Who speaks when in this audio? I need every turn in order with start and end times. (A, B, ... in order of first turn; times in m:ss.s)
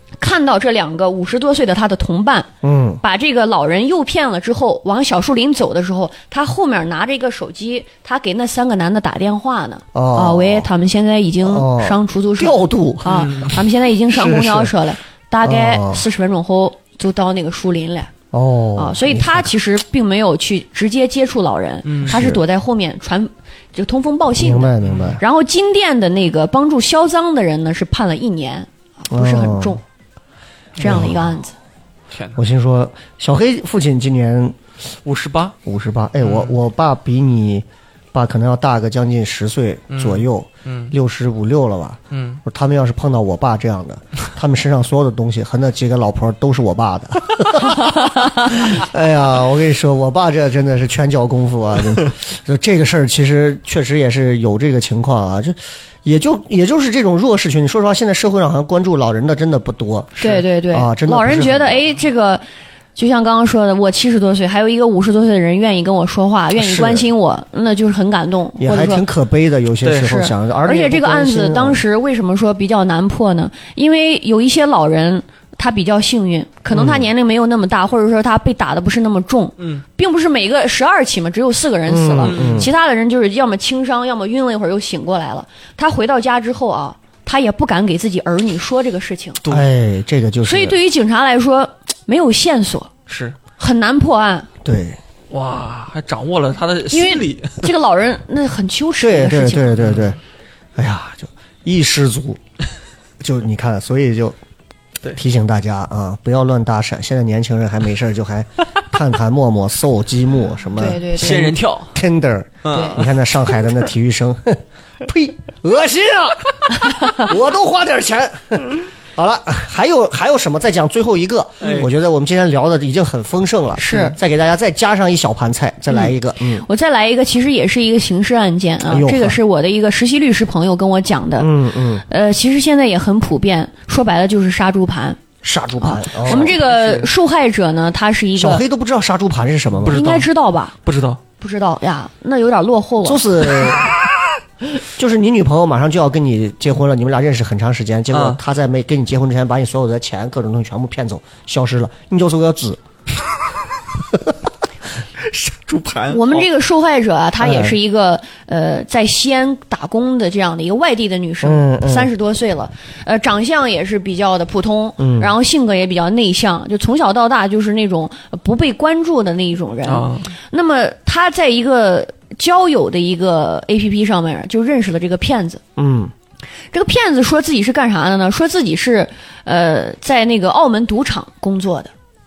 0:00.2-0:02.5 A
0:02.6-0:03.0 B
0:03.0-0:18.1 A
0:09.9-0:10.7 B
0:11.4-0:13.5 B
0:13.0-0:13.5 C
0:14.1-0:14.7 B
0:15.4-0:16.0 B
0:18.3-0:19.5 B
0:18.8-0:29.8 A
0:21.8-0:22.2 C
0:22.0-0:22.4 B
0:24.4-0:25.2 B
0:24.8-0:25.2 C
0:29.1-0:29.8 B
0:30.8-0:31.6 A
0:30.8-0:31.2 B
0:32.1-0:32.4 C
0:32.3-0:34.6 B
0:35.0-0:35.6 C
0:35.6-1:00.2 B
0:36.2-0:36.5 C
0:39.9-0:40.9 C
0:42.1-0:42.4 C
1:00.2-1:02.4 A
1:00.7-1:01.8 B
1:02.9-1:09.0 A
1:06.6-1:07.0 B
1:08.6-1:11.8 B
1:09.8-1:10.1 C
1:10.0-1:29.4 A
1:16.7-1:17.0 B
1:21.9-1:22.7 B
1:22.2-1:22.7 C
1:29.5-1:30.8 B
1:30.4-1:32.9 A
1:33.1-1:33.4 C
1:33.6-1:34.5 A
1:34.6-1:35.0 B
1:35.3-1:37.6 C
1:36.9-1:40.0 A
1:39.0-1:40.2 B
1:40.8-1:42.4 B
1:43.2-1:44.4 B
1:45.1-2:06.6 B
1:50.8-1:51.6 A
1:51.1-1:51.9 C
1:52.6-1:53.1 C
1:52.7-1:53.0 A
2:01.6-2:01.9 C
2:03.8-2:04.2 A
2:05.9-2:15.2 A
2:08.9-2:09.4 B
2:11.4-2:12.0 B
2:15.4-2:16.7 B
2:15.8-2:18.6 A
2:18.4-2:20.0 B
2:19.8-2:20.3 C
2:19.8-2:20.7 A
2:20.8-2:21.2 C
2:21.4-2:23.8 A
2:23.0-2:23.9 B
2:25.0-2:32.8 B
2:28.1-2:28.4 C
2:35.2-2:36.4 C
2:36.1-2:55.6 A
2:37.4-2:37.7 B
2:41.4-2:42.1 B
2:45.0-2:45.3 B
2:49.8-2:50.3 C
2:55.8-2:56.1 B
2:56.7-3:01.9 A